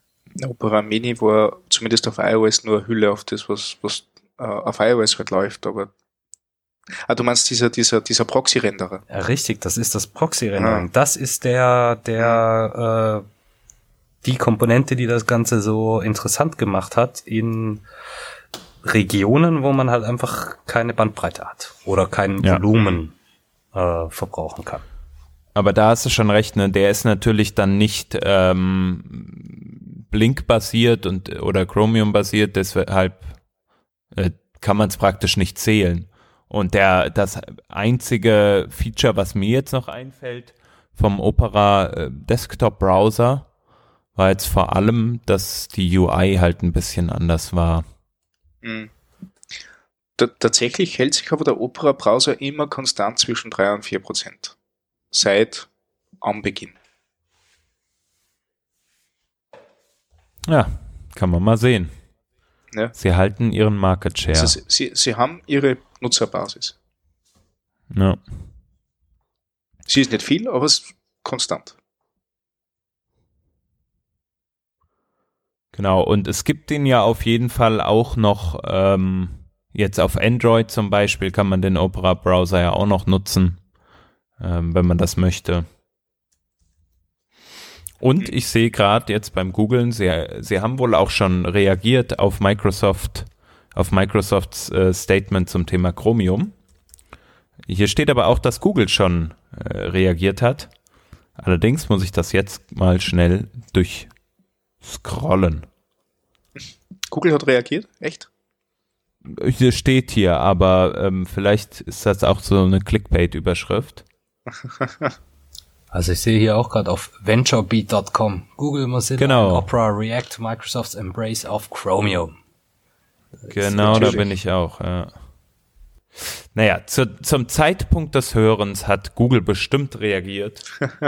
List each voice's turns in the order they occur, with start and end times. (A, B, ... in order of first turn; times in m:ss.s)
0:00.4-0:05.9 A
0:07.0-0:09.0 A
0:09.1-0:13.2 B
0:10.6-0:10.8 A
0:14.2-0:17.8 B
0:18.8-0:23.1 B
0:23.7-0:24.8 B
0:25.5-0:33.3 C
0:34.1-0:43.5 C
0:44.2-0:47.8 C
0:48.6-0:48.9 A
0:50.2-0:54.6 A
0:55.1-0:55.7 A
0:56.2-0:56.8 A
1:00.4-1:01.9 C
1:02.9-1:04.6 C
1:04.3-1:06.8 A
1:07.9-1:08.2 C
1:09.9-1:11.8 A
1:15.7-1:23.6 C
1:24.4-1:25.7 C
1:28.0-1:36.5 C
1:37.7-1:40.7 C
1:41.4-1:44.1 C
1:44.8-1:45.6 C
1:47.1-1:48.3 A
1:49.2-1:54.0 C
1:54.8-1:55.1 A
1:55.9-2:02.3 B
1:59.2-1:59.7 C
2:03.4-2:04.2 B
2:03.5-2:05.2 C
2:03.8-2:04.2 A
2:06.2-2:10.7 C